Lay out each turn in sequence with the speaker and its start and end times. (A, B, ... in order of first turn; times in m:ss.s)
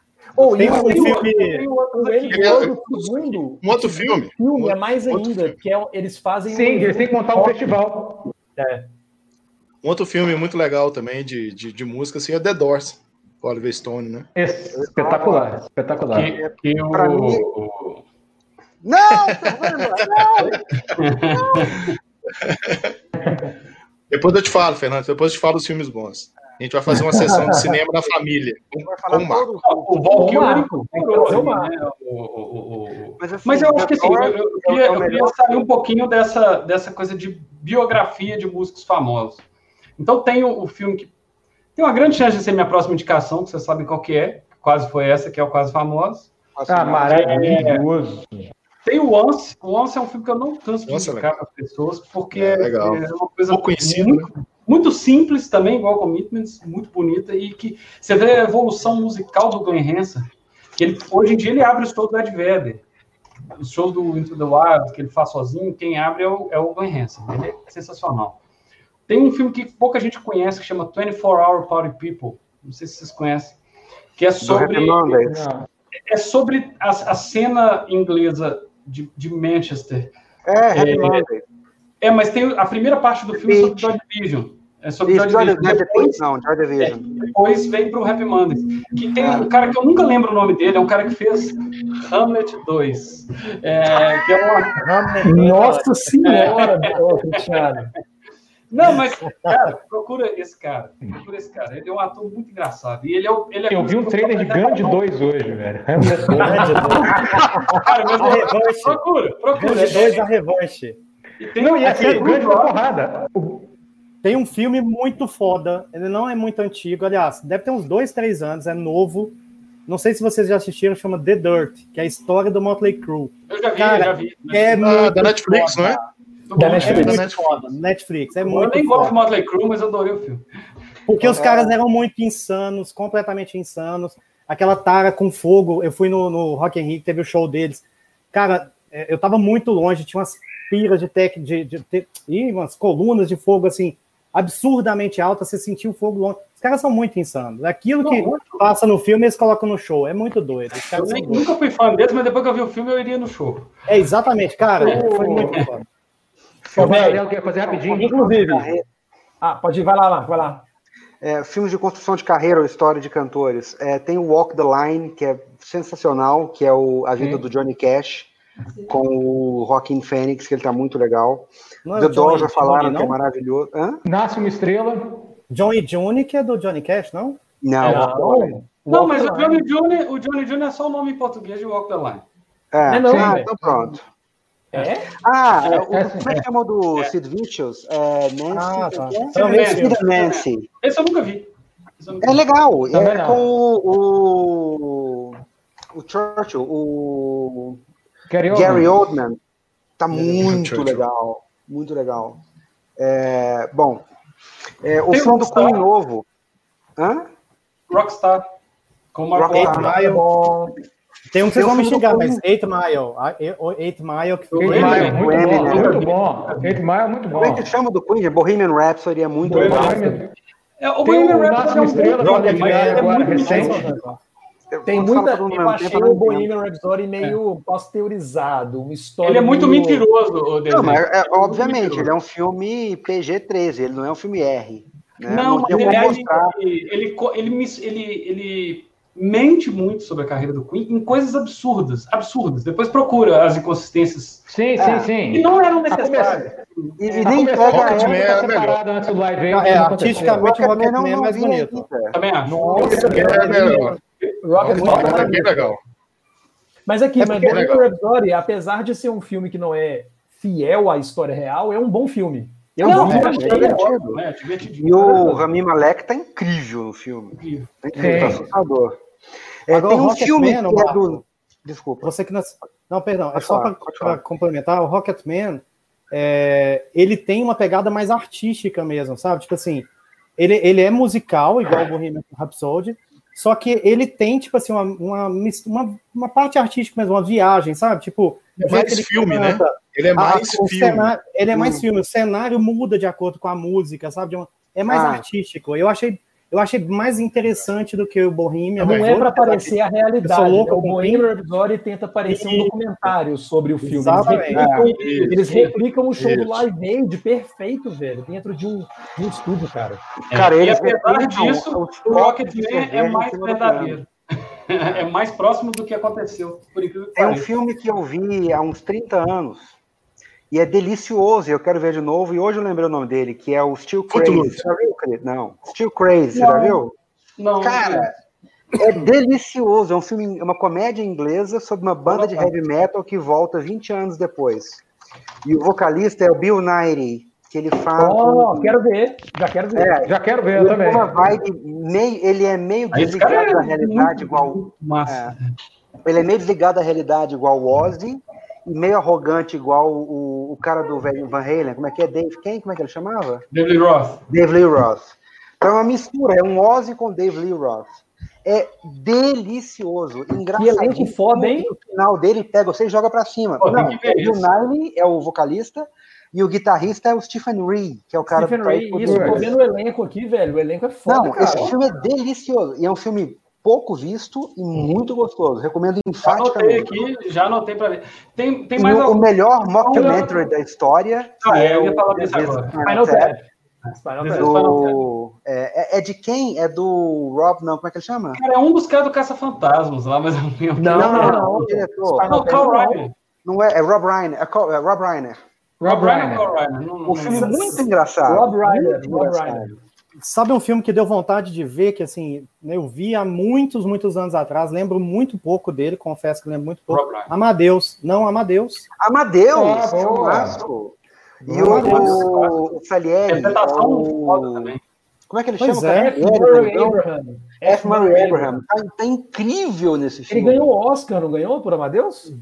0:00.4-0:01.3 A
0:00.5-0:01.6 B
0:00.6-0:02.8 C
0:02.0-0:07.7 A
0:02.3-0:05.6 D
0:06.5-0:08.3 E
0:08.6-0:08.9 A
0:09.8-0:14.3 D
0:14.4-0:16.4 E
0:14.8-0:15.5 F
0:16.1-0:18.0 C
0:16.4-0:17.4 F
0:18.8-0:21.8 F
0:19.2-0:20.4 D
0:21.0-0:22.0 C
0:22.3-0:23.0 D
0:24.1-0:29.5 D
0:27.0-0:27.6 A
0:28.8-0:30.5 F
0:29.6-0:39.4 C
0:30.1-0:31.7 A
0:33.2-0:35.7 F
0:40.0-0:41.1 C
0:41.8-0:46.3 C
0:46.6-0:47.5 F
0:46.7-0:48.5 E
0:47.0-0:47.8 C
0:48.8-1:02.8 C
0:50.9-0:51.3 D
0:52.3-0:54.3 D
1:03.6-1:08.4 C
1:09.1-1:13.6 C
1:14.2-1:15.2 C
1:14.4-1:15.5 F
1:15.3-1:15.7 E
1:16.1-1:20.1 C
1:20.5-1:21.4 F
1:20.7-1:21.3 C
1:22.0-1:26.2 C
1:23.3-1:23.9 F
1:25.1-1:27.1 F
1:26.8-1:34.8 C
1:29.2-1:29.5 F
1:34.8-1:36.1 B
1:35.2-1:37.9 A
1:36.2-1:37.7 C
1:38.7-1:45.0 C
1:43.7-1:47.9 E
1:46.4-1:47.4 B
1:46.4-1:47.0 A
1:47.8-1:50.3 C
1:48.2-1:49.0 B
1:49.6-1:51.0 B
1:49.6-1:50.0 A
1:51.4-1:52.8 C
1:51.6-1:53.7 E
1:51.8-1:52.2 B
1:54.2-1:59.4 B
1:59.9-2:06.0 B
2:03.5-2:04.8 C
2:04.8-2:06.0 D
2:06.5-2:07.2 C
2:06.6-2:07.2 A
2:06.6-2:09.2 B
2:06.8-2:07.7 D
2:08.4-2:10.4 C
2:11.1-2:31.5 B
2:11.2-2:11.8 F
2:28.0-2:28.7 C
2:30.7-2:33.7 C
2:33.9-2:35.9 B
2:34.8-2:35.7 C
2:34.8-2:35.5 E
2:35.0-2:35.4 A
2:36.7-2:38.8 F
2:36.8-2:37.2 A
2:36.8-2:38.3 E
2:37.9-2:38.7 A
2:39.4-2:40.6 A
2:41.2-2:48.3 F
2:48.9-2:54.0 F
2:51.8-2:53.2 B
2:54.0-2:55.4 E
2:55.5-2:57.4 B
2:57.6-2:58.6 F
2:57.8-2:59.6 A
2:58.9-3:02.2 C
3:02.7-3:04.0 F
3:02.9-3:03.5 A
3:03.1-3:03.4 E
3:04.7-3:05.1 A
3:05.2-3:10.7 F
3:05.8-3:06.4 E
3:08.5-3:10.0 B
3:09.4-3:11.5 C
3:12.0-3:12.4 C
3:12.2-3:15.4 F
3:12.9-3:13.5 E
3:15.9-3:17.8 F
3:18.3-3:19.0 E
3:18.5-3:19.4 F
3:20.0-3:22.4 F
3:20.1-3:21.0 D
3:23.0-3:24.0 F
3:24.8-3:26.3 F
3:25.1-3:25.8 C
3:27.0-3:27.3 F
3:27.9-3:28.5 C
3:29.1-3:30.0 C
3:29.4-3:30.0 F
3:29.5-3:30.3 B
3:29.8-3:30.8 A
3:31.3-3:35.2 B
3:31.6-3:32.4 F
3:34.5-3:36.8 C
3:34.6-3:37.7 E
3:34.7-3:36.0 F
3:37.4-3:40.1 F
3:39.5-3:40.1 A
3:39.5-3:40.3 E
3:40.8-3:43.9 C
3:41.0-3:43.8 E
3:41.9-3:44.2 B
3:44.7-3:46.5 F
3:44.9-3:50.1 A
3:49.2-3:52.1 C
3:50.7-3:56.6 F
3:55.2-4:04.5 C
3:55.7-3:56.1 A
4:04.5-4:06.6 E
4:04.8-4:05.1 F
4:05.3-4:07.4 C
4:07.0-4:08.4 F
4:07.1-4:10.4 E
4:07.7-4:08.8 D
4:09.5-4:11.9 B
4:10.3-4:13.1 F
4:12.1-4:14.4 C
4:12.5-4:13.4 B
4:12.8-4:15.6 A
4:12.9-4:14.0 D
4:14.6-4:15.8 D
4:14.6-4:15.5 B
4:16.9-4:23.9 A
4:17.2-4:17.7 B
4:17.5-4:17.9 D
4:22.8-4:24.2 F
4:22.8-4:25.5 C
4:23.0-4:23.4 B
4:24.8-4:29.0 F
4:27.3-4:27.8 C
4:27.9-4:28.4 E
4:29.7-4:32.1 F
4:29.7-4:31.2 B
4:32.0-5:01.3 B
4:33.4-4:34.2 F
4:48.6-4:51.1 D
4:51.5-4:51.8 F
4:54.9-4:55.2 F
4:58.8-5:10.0 A
5:02.3-5:02.8 B
5:03.8-5:04.7 B
5:04.5-5:05.8 C
5:04.5-5:04.9 F
5:05.0-5:05.4 D
5:06.2-5:06.7 D
5:10.3-5:14.0 F
5:10.3-5:14.1 C
5:14.7-5:17.5 C
5:17.2-5:19.8 F
5:20.5-5:26.9 F
5:24.1-5:24.6 D
5:26.3-5:26.8 C
5:27.4-5:28.1 C
5:27.6-5:28.1 F
5:28.8-5:34.8 F
5:32.1-5:32.5 A
5:35.4-5:38.8 F
5:38.0-5:39.9 A
5:39.8-5:45.4 F
5:40.0-5:41.3 E
5:42.9-5:45.4 C
5:46.0-5:53.4 F
5:53.5-5:54.2 C
5:54.3-6:09.5 F
6:00.6-6:01.7 A
6:03.6-6:04.5 C
6:08.3-6:11.8 A
6:09.0-6:09.5 E
6:11.1-6:17.0 F
6:11.4-6:11.7 C
6:16.2-6:19.2 C
6:18.8-6:23.4 F
6:19.8-6:20.5 C
6:21.4-6:22.8 C
6:22.9-6:23.5 A
6:24.0-6:24.7 A
6:24.2-6:25.0 C
6:24.3-6:28.4 F
6:28.4-6:33.1 C
6:30.8-6:33.1 A
6:30.9-6:32.5 F
6:33.4-6:35.4 F
6:35.8-6:36.5 E
6:35.8-6:37.8 C
6:37.1-6:39.7 F
6:37.3-6:39.8 A
6:40.2-6:48.9 B
6:46.9-6:47.3 C
6:49.0-6:54.7 F
6:49.5-6:50.6 E
6:51.5-6:52.2 A
6:51.6-6:51.9 B
6:51.7-6:52.6 C
6:53.3-6:54.8 C
6:55.3-6:57.0 F
6:55.6-6:56.2 B
6:55.9-6:58.6 A
6:57.6-7:00.7 F
7:00.3-7:02.3 A